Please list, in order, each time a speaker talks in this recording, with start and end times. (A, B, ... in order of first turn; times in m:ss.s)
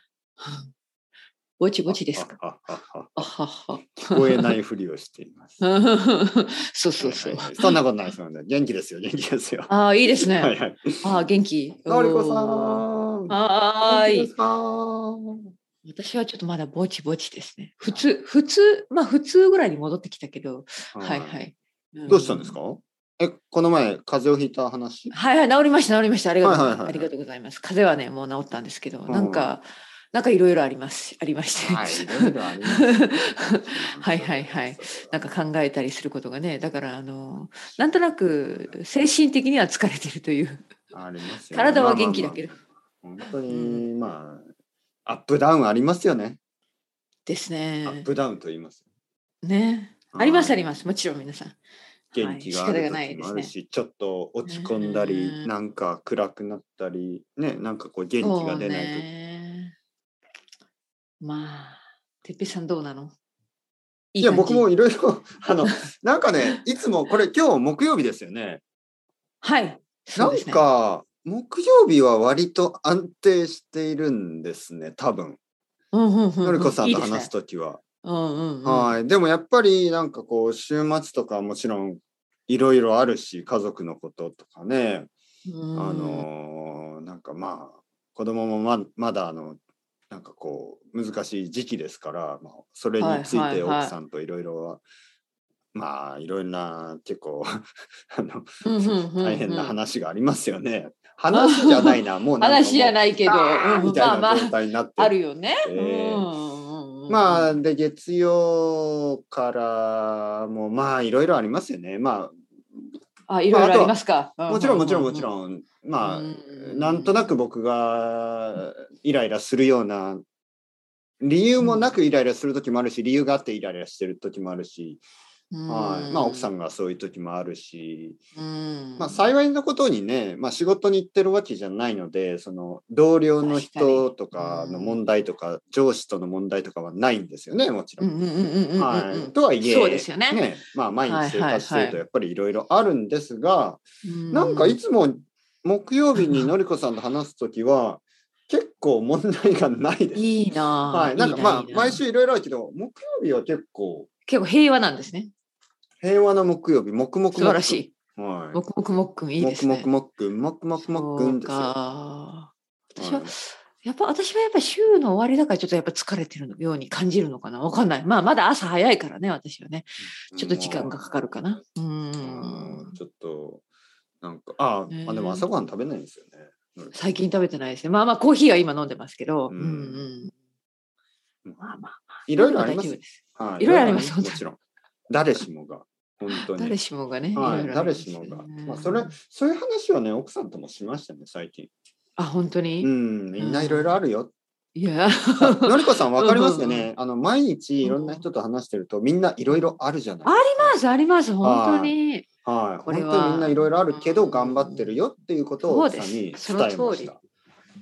0:00.4-0:00.7 A
0:01.6-0:02.4 A
0:01.9-0:03.3 B
0:03.2-0:04.6 A
0:03.8-0:05.6 B
0:05.6-0:07.8 A
0:07.0-0:11.1 B
0:09.7-0:14.3 A
0:11.9-0:15.5 B
0:15.8-0:22.6 A
0:21.0-0:21.4 B
0:22.1-0:25.2 B
0:25.1-0:40.6 A
0:26.4-0:27.1 B
0:29.1-0:29.5 B
0:31.6-0:35.4 B
0:37.8-0:38.8 B
0:40.9-0:44.5 B
0:41.5-0:42.6 A
0:43.5-0:43.9 A
0:45.1-0:46.4 B
0:47.3-0:48.1 A
0:47.8-0:48.8 B
0:49.4-0:51.6 A
0:50.1-0:50.6 B
0:52.1-0:59.1 B
0:52.2-0:53.5 A
0:54.5-0:55.5 A
0:58.2-0:59.7 A
1:01.2-1:03.2 A
1:04.1-1:04.7 A
1:04.2-1:08.6 B
1:09.4-1:10.6 A
1:10.2-1:15.4 B
1:15.9-1:17.3 A
1:16.4-1:17.8 B
1:18.0-1:18.9 A
1:18.6-1:25.1 B
1:25.5-1:26.3 A
1:25.8-1:29.6 B
1:30.1-1:34.8 B
1:33.0-1:34.0 A
1:35.7-1:46.3 B
1:38.6-1:39.8 A
1:41.3-1:47.6 A
1:47.1-1:52.9 B
1:53.3-1:55.3 A
1:53.5-1:54.0 B
1:54.5-2:00.2 B
1:56.0-1:57.4 A
2:01.2-2:05.0 B
2:01.6-2:02.0 A
2:05.5-2:06.5 A
2:05.7-2:08.2 B
2:08.4-2:09.2 A
2:09.0-2:18.1 B
2:13.4-2:15.0 A
2:18.0-2:20.5 A
2:18.8-2:30.3 B
2:21.1-2:22.0 A
2:24.0-2:24.8 A
2:26.2-2:26.5 A
2:30.1-2:32.0 A
2:30.9-2:34.1 B
2:34.3-2:35.3 A
2:36.0-2:38.6 B
2:37.4-2:37.9 A
2:38.5-2:39.9 A
2:39.4-2:41.7 B
2:40.8-2:53.0 A
2:43.0-2:43.3 B
2:50.3-2:51.1 B
2:52.2-2:53.6 B
2:54.2-2:57.0 B
2:54.9-2:55.5 A
2:56.9-3:00.3 A
2:59.5-3:00.1 B
3:01.6-3:04.4 A
3:02.3-3:04.6 B
3:05.1-3:06.8 B
3:06.3-3:09.2 A
3:07.4-3:11.7 B
3:12.2-3:14.0 A
3:12.8-3:14.3 B
3:14.8-3:16.9 A
3:15.4-3:20.8 B
3:17.8-3:18.2 A
3:19.5-3:22.3 A
3:21.4-3:27.2 B
3:22.9-3:25.0 A
3:25.6-3:27.1 A